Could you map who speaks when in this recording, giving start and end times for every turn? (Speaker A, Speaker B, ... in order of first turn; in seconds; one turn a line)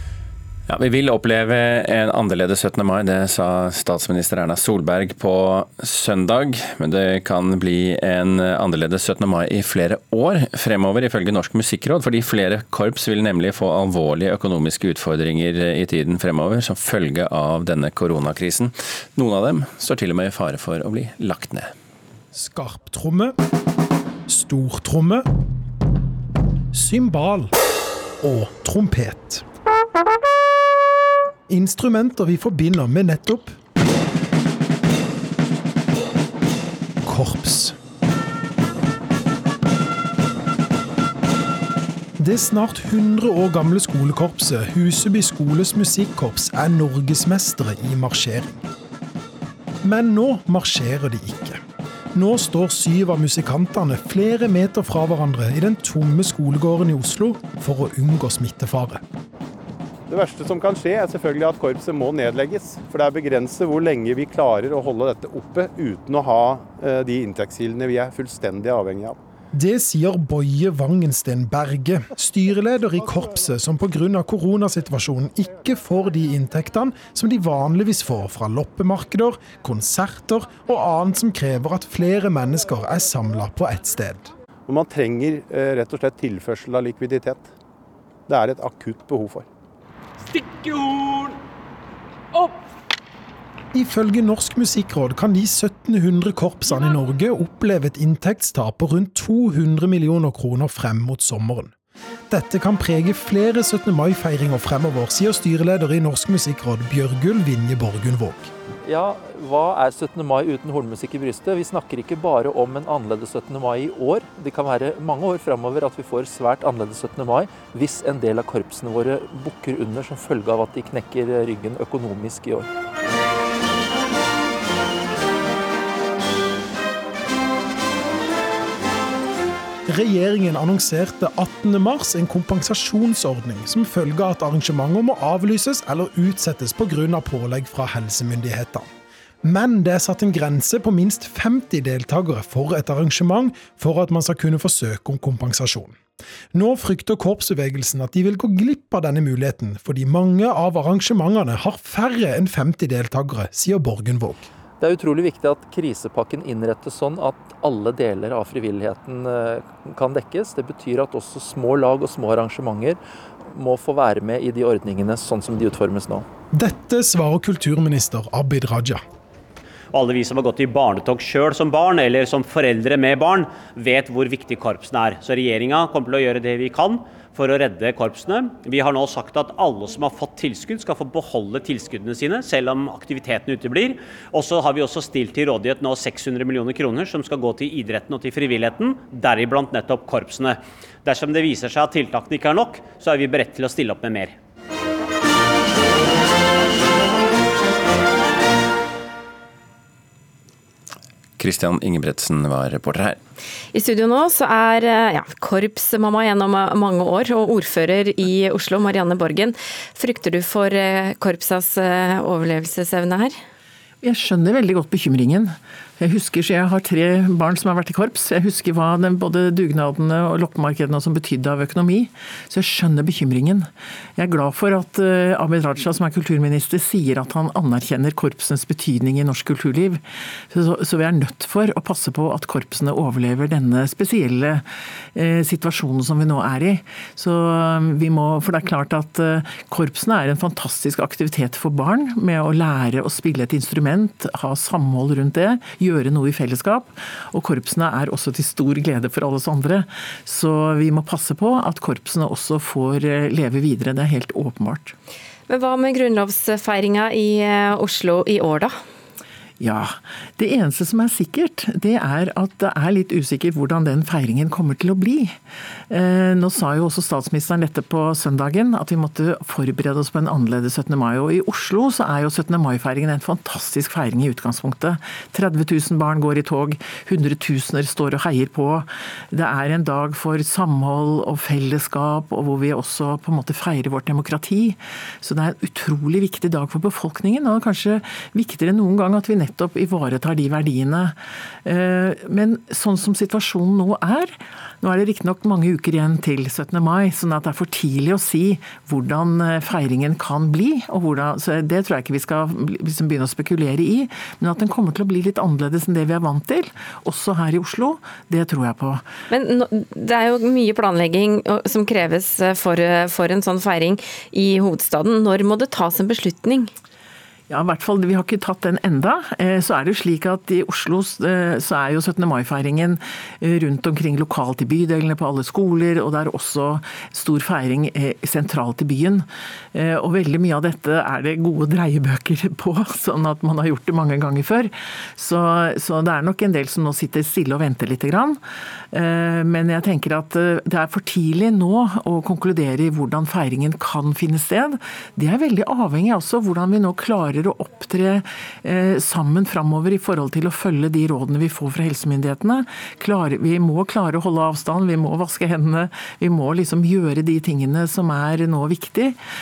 Speaker A: 0.7-21.7
Speaker B: 22.3-23.3
Speaker B: 24.3-25.2
Speaker B: 26.7-27.5
Speaker B: 28.2-29.4
Speaker B: 31.5-33.5
Speaker B: 37.0-37.8
Speaker B: 42.2-48.6
Speaker B: 49.8-51.6
Speaker B: 52.1-59.0
Speaker C: 60.1-69.2
Speaker B: 69.5-84.3
Speaker C: 84.7-87.5
Speaker C: 88.3-89.5
Speaker B: 93.7-101.7
Speaker B: 102.3-108.5
Speaker D: 108.8-122.7
Speaker B: 129.9-138.9
Speaker B: 139.4-145.9
Speaker B: 146.5-154.5
Speaker D: 154.8-163.0
Speaker D: 163.5-166.3
Speaker B: 166.5-169.0
Speaker E: 169.9-194.3
Speaker A: 201.4-203.2
Speaker F: 203.7-213.4
Speaker G: 214.0-234.6
Speaker G: 235.2-254.9
Speaker F: 255.5-258.8
Speaker G: 259.6-265.4
Speaker G: 265.9-309.1
Speaker F: 309.3-316.7
Speaker G: 317.5-338.4
Speaker G: 338.9-359.2